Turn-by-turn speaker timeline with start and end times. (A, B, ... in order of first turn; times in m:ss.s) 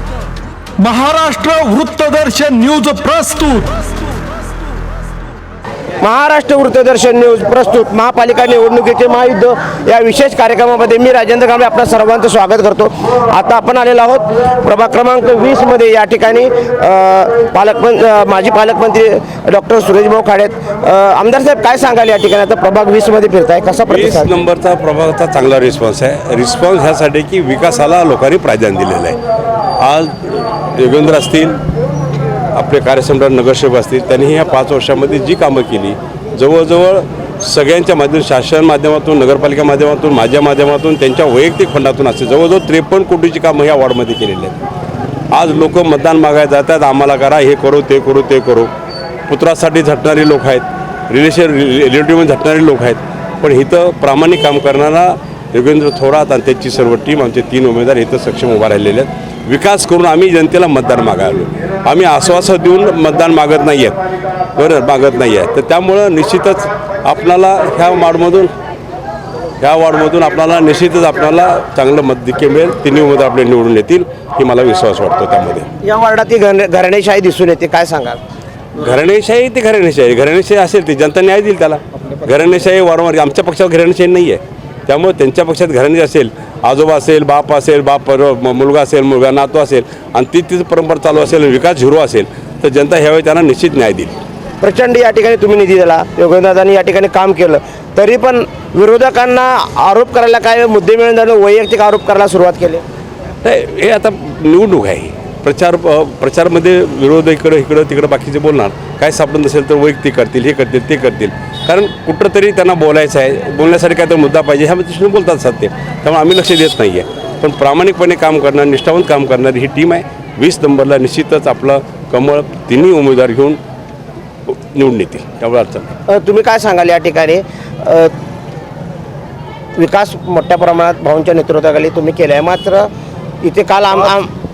0:00.8-0:03.9 A
0:06.0-0:24.3 B
0:23.9-0:29.2 C
0:29.8-0:31.6 C
0:32.5-0:44.6 C
0:45.3-0:48.7 C
0:49.3-1:04.0 C
1:04.5-1:08.5 C
1:09.6-1:15.7 C
1:15.8-1:18.2 B
1:18.8-1:34.1 C
1:34.6-1:42.8 B
1:43.4-2:03.6 C
2:04.5-2:05.9 C
2:06.1-2:08.1 B
2:09.8-2:12.9 B
2:13.4-2:14.3 B